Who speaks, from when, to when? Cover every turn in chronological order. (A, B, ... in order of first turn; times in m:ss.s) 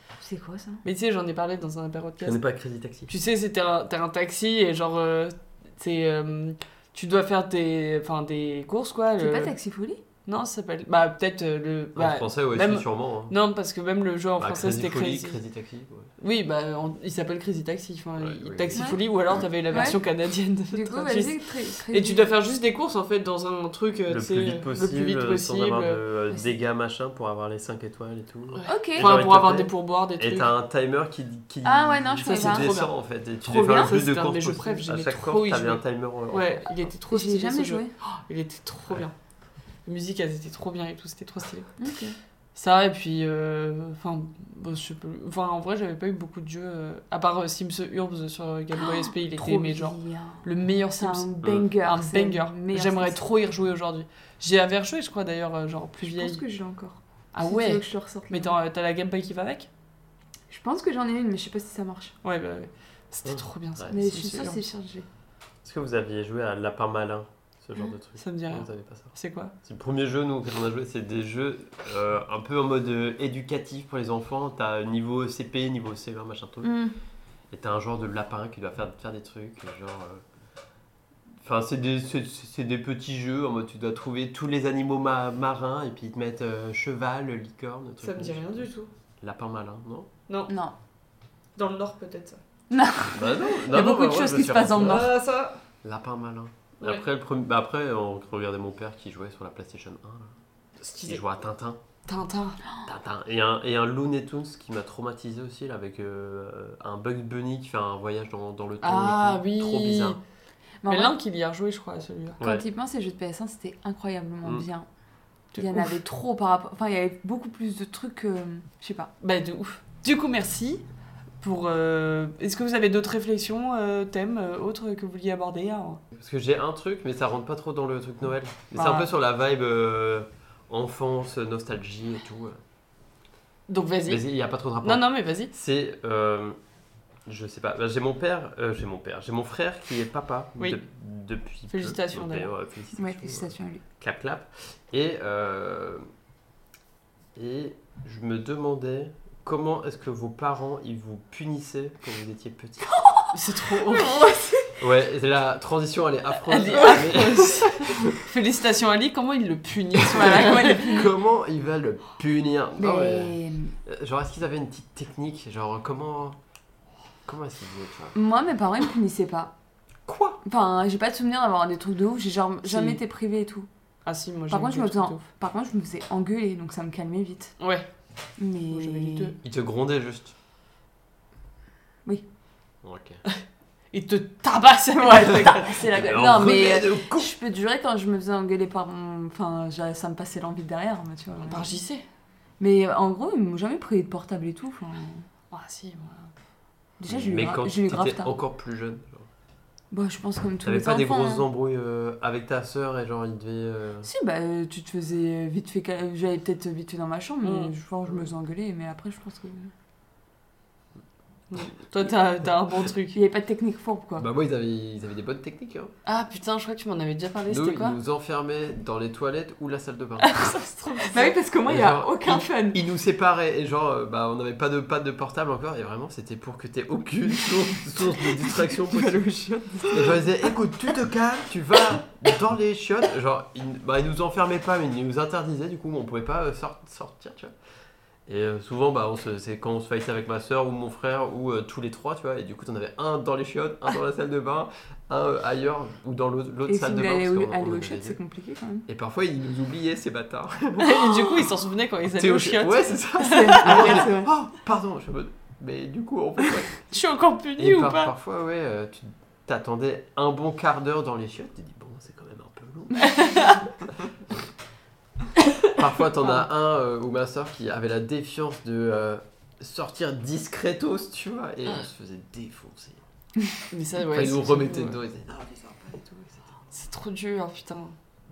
0:00.2-0:00.8 A
0:00.8-0:02.4 B
0:02.2-0:03.1 C
0:03.1-0:09.5 B
0:09.2-0:10.0 A
0:10.2-0:15.4 B
0:11.9-0:13.3 C
0:14.4-0:16.1 C
0:16.2-0:21.4 B
0:18.2-0:19.9 C
0:18.7-0:19.0 A
0:19.7-0:20.0 A
0:20.7-0:22.3 A
0:21.9-0:26.0 B
0:24.1-0:36.6 C
0:26.3-0:26.6 A
0:28.5-0:30.5 B
0:28.7-0:29.2 A
0:31.6-0:32.7 A
0:32.2-0:32.9 B
0:33.5-0:34.0 A
0:33.5-0:39.1 B
0:37.1-0:37.9 A
0:39.8-0:41.7 B
0:41.8-0:42.2 A
0:42.6-0:56.4 B
0:48.8-0:53.2 A
0:56.0-0:58.5 A
0:57.3-0:59.7 B
1:00.5-1:02.1 A
1:02.2-1:04.6 B
1:03.2-1:03.9 C
1:03.9-1:05.0 A
1:05.6-1:09.1 C
1:08.2-1:09.5 B
1:09.6-1:16.7 C
1:16.6-1:17.0 A
1:17.5-1:20.2 C
1:21.4-1:28.6 C
1:28.0-1:28.9 B
1:29.2-1:30.1 C
1:30.5-1:30.7 A
1:31.6-1:32.4 B
1:32.7-1:35.1 A
1:33.1-1:35.1 C
1:34.7-1:35.6 B
1:35.8-1:41.8 C
1:40.9-1:41.2 B
1:42.0-1:42.6 B
1:42.8-1:50.2 C
1:48.8-1:50.2 B
1:50.8-1:51.1 A
1:50.9-1:52.4 B
1:52.4-1:52.6 C
1:52.4-1:54.9 A
1:55.5-1:56.0 B
1:55.6-1:59.1 A
1:59.2-2:00.8 B
2:01.4-2:06.0 B
2:06.1-2:12.6 C
2:08.7-2:09.1 B
2:13.7-2:14.2 B
2:14.1-2:16.6 C
2:14.8-2:15.5 B
2:17.2-2:26.1 C
2:21.7-2:22.5 B
2:23.0-2:23.8 A
2:27.3-2:33.0 C
2:32.9-2:34.8 A
2:33.3-2:34.4 B
2:34.8-2:38.2 C
2:36.3-2:41.1 B
2:40.0-2:46.4 C
2:40.2-2:41.1 A
2:42.8-2:43.7 A
2:47.2-2:48.2 C
2:48.1-2:49.5 A
2:50.1-2:50.4 C
2:50.4-2:53.7 A
2:52.6-2:53.0 B
2:54.0-2:55.2 B
2:54.5-2:57.6 A
2:57.6-2:57.9 B
2:58.4-2:59.4 A
2:58.7-2:59.3 B
2:59.4-3:00.3 C
3:02.8-3:03.2 C
3:03.9-3:05.9 B
3:04.9-3:11.8 A
3:05.9-3:07.3 C
3:11.4-3:12.0 B
3:12.6-3:15.2 A
3:15.5-3:16.3 B
3:17.0-3:18.3 A
3:17.1-3:19.3 C
3:19.9-3:21.4 A
3:20.6-3:24.1 C
3:24.0-3:29.7 A
3:27.4-3:27.7 B
3:31.5-3:33.2 B
3:33.1-3:34.3 A
3:34.2-3:35.9 C
3:36.0-3:38.0 B
3:37.5-3:40.4 C
3:40.2-3:41.3 B
3:41.1-3:42.8 A
3:41.6-3:49.2 C
3:48.9-3:50.2 B
3:49.7-3:50.0 A
3:49.9-3:57.5 C
3:58.3-4:08.2 C
4:06.7-4:08.8 A
4:08.9-4:11.1 C
4:10.8-4:14.1 B
4:12.1-4:16.8 C
4:13.2-4:14.3 A
4:16.9-4:18.1 B
4:17.6-4:23.6 C
4:23.0-4:23.6 B
4:25.8-4:33.0 C
4:26.2-4:26.4 B
4:33.7-4:35.0 B
4:34.0-4:36.4 C
4:36.7-4:38.0 B